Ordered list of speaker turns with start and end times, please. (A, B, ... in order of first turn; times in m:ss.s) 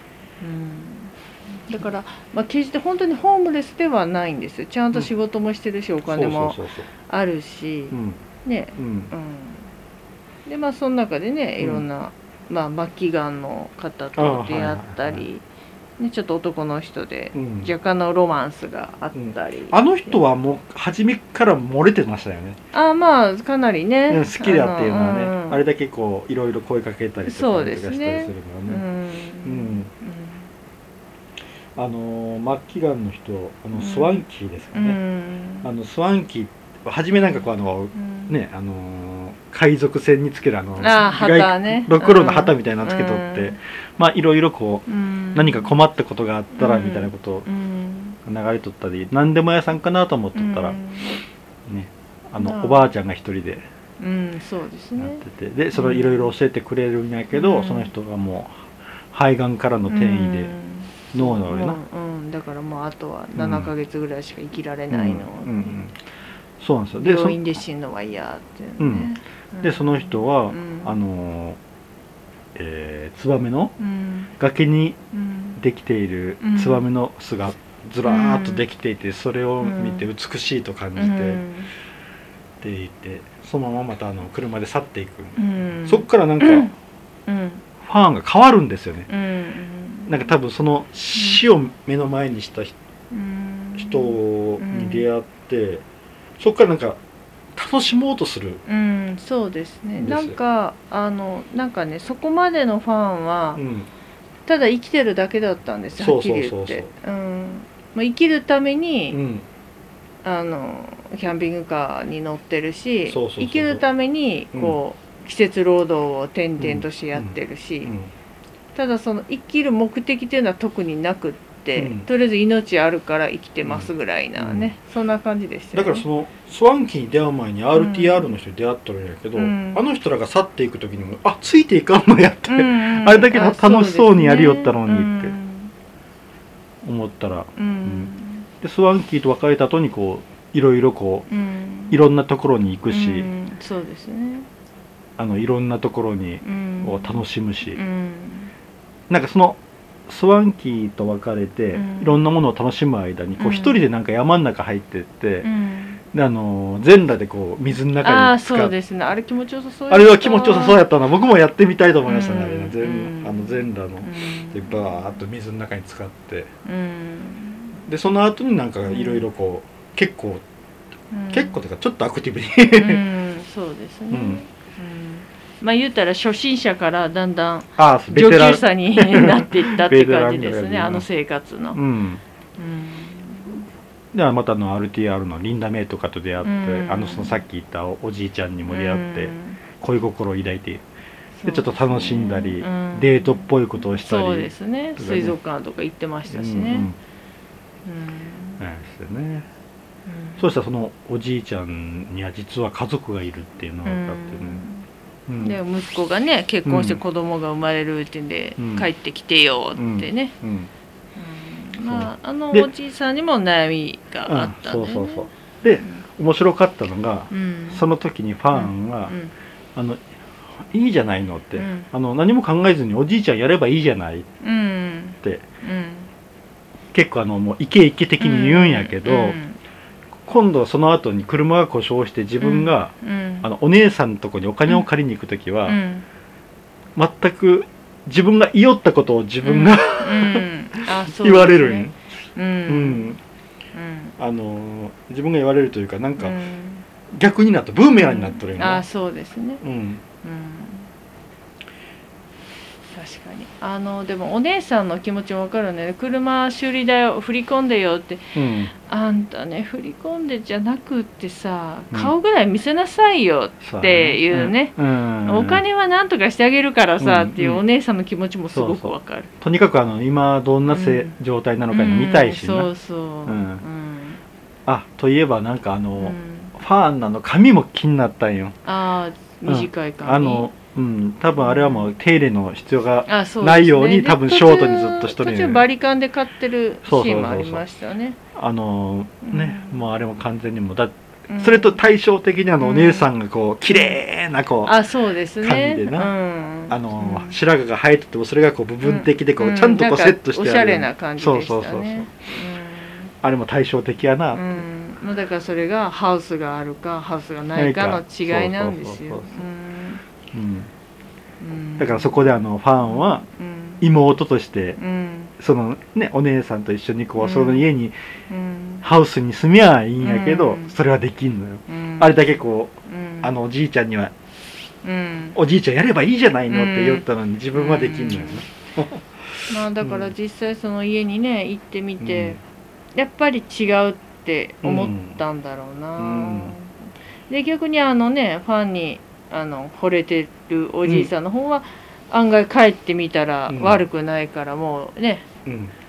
0:00.4-0:09.7 A
0:06.1-0:06.9 B
0:07.9-0:08.2 B
0:08.8-0:09.1 B
0:10.4-0:15.4 A
0:14.2-0:15.2 B
0:16.0-0:20.2 A
0:17.3-0:17.7 B
0:19.1-0:22.6 B
0:22.7-0:25.6 A
0:24.1-0:28.8 B
0:27.2-0:30.5 A
0:29.4-0:29.9 B
0:31.8-0:35.0 B
0:33.8-0:35.7 A
0:35.6-0:47.4 B
0:37.2-0:38.3 A
0:40.8-0:43.6 A
0:44.9-0:45.7 A
0:46.5-0:48.2 A
0:48.2-0:50.8 B
0:50.3-0:51.2 A
0:51.6-0:53.6 B
0:52.4-0:52.9 A
0:54.0-0:55.2 A
0:55.0-1:00.5 B
0:55.7-0:56.3 A
0:57.3-0:57.9 A
0:59.9-1:05.8 A
1:01.1-1:01.8 B
1:03.4-1:03.7 B
1:04.9-1:05.9 B
1:06.6-1:07.4 B
1:07.0-1:10.9 A
1:08.8-1:11.6 B
1:12.5-1:13.7 B
1:13.8-1:14.3 A
1:14.4-1:15.0 B
1:15.1-1:15.6 A
1:15.6-1:21.4 B
1:16.4-1:16.8 A
1:18.0-1:18.6 A
1:19.6-1:20.0 A
1:21.0-1:21.7 A
1:22.6-1:26.7 B
1:25.4-1:26.7 A
1:27.3-1:27.6 A
1:27.8-1:29.1 B
1:29.1-1:30.3 A
1:30.1-1:32.8 B
1:31.1-1:31.4 A
1:33.1-1:35.1 A
1:33.8-1:35.8 B
1:36.4-1:37.0 B
1:37.5-1:38.6 B
1:38.6-1:43.6 A
1:40.0-1:40.4 B
1:43.6-1:43.9 B
1:44.5-1:49.2 A
1:46.0-1:46.9 B
1:49.1-1:49.4 B
1:50.2-1:57.9 A
1:53.1-1:53.8 B
1:54.5-1:54.8 B
1:56.6-1:58.1 B
1:58.8-2:06.0 A
2:01.8-2:02.0 B
2:03.6-2:04.7 B
2:05.7-2:15.3 B
2:07.7-2:08.3 A
2:09.4-2:09.8 A
2:12.5-2:15.7 A
2:16.8-2:18.1 B
2:17.6-2:18.5 A
2:18.6-2:21.2 B
2:21.3-2:22.0 A
2:21.9-2:23.3 B
2:22.9-2:24.5 A
2:25.2-2:27.8 B
2:26.4-2:27.2 A
2:27.7-2:28.5 A
2:29.1-2:35.5 B
2:31.7-2:32.2 A
2:33.4-2:33.8 A
2:35.4-2:36.0 A
2:36.1-2:38.7 B
2:38.0-2:40.8 A
2:39.9-2:46.5 B
2:42.0-2:45.2 A
2:46.6-2:47.8 A
2:47.9-2:50.4 B
2:48.9-2:49.2 A
2:51.1-2:51.6 A
2:51.3-2:53.0 B
2:52.7-3:01.8 A
2:54.1-2:54.4 B
2:57.8-3:01.0 B
3:01.7-3:02.2 B
3:02.6-3:03.6 A
3:04.1-3:10.8 B
3:06.4-3:07.4 A
3:08.7-3:09.6 A
3:11.4-3:16.9 A
3:11.4-3:15.4 B
3:16.3-3:17.0 B
3:17.9-3:18.6 A
3:18.6-3:19.5 B
3:20.1-3:20.4 A
3:20.4-3:24.6 B
3:23.8-3:24.9 A
3:25.3-3:25.6 B
3:25.4-3:30.3 A
3:26.6-3:27.0 B
3:28.6-3:28.9 B
3:29.8-3:30.7 B
3:31.2-3:36.0 A
3:31.8-3:32.7 B
3:34.2-3:39.1 B
3:37.3-3:37.8 A
3:38.5-3:39.3 A
3:39.8-3:40.0 B
3:40.6-3:44.3 B
3:41.6-3:41.9 A
3:44.4-3:46.1 A
3:46.9-3:49.4 B
3:48.2-3:49.6 A
3:50.2-3:55.8 B
3:52.4-3:53.5 A
3:55.7-3:56.0 A
3:57.0-4:01.9 B
3:59.4-4:03.2 A
4:02.7-4:03.2 B
4:03.7-4:04.1 A
4:04.2-4:06.4 B
4:06.2-4:06.8 A
4:07.1-4:08.8 B
4:08.0-4:09.6 A
4:09.6-4:10.0 B
4:10.2-4:10.9 A
4:12.9-4:29.3 A
4:18.3-4:18.7 B
4:23.6-4:25.6 B
4:27.0-4:27.6 B
4:28.5-4:32.7 B
4:30.7-4:31.1 A
4:31.7-4:34.2 A
4:33.3-4:33.6 B
4:34.7-4:38.6 B
4:36.0-4:36.5 A
4:38.6-4:40.5 A
4:39.5-4:45.6 B
4:41.4-4:41.9 A
4:43.1-4:48.2 A
4:46.8-4:47.6 B
4:48.3-4:54.7 B
4:49.2-4:49.8 A
4:51.3-4:51.8 A
4:52.6-4:53.1 A
4:53.7-4:54.0 A
4:54.6-4:57.4 A
4:55.4-4:56.1 B
4:56.7-5:02.3 B
4:58.8-5:03.1 A
5:03.2-5:04.6 B
5:04.3-5:10.0 A
5:07.5-5:09.4 B
5:10.3-5:10.7 B
5:11.4-5:12.2 A
5:11.8-5:13.2 B
5:12.8-5:13.8 A
5:13.8-5:14.8 B
5:14.8-5:15.3 A
5:15.4-5:17.9 B
5:17.2-5:17.7 A
5:18.3-5:18.8 A
5:18.8-5:24.1 B
5:20.0-5:20.8 A
5:21.7-5:23.3 A
5:24.8-5:25.4 A
5:25.3-5:30.1 B
5:26.5-5:28.4 A
5:29.5-5:32.4 A
5:32.0-5:32.4 B
5:32.9-5:36.8 A
5:34.6-5:35.2 B
5:36.0-5:36.5 B
5:37.3-5:45.2 A
5:40.8-5:41.1 B
5:43.5-5:43.8 B
5:45.4-5:45.7 B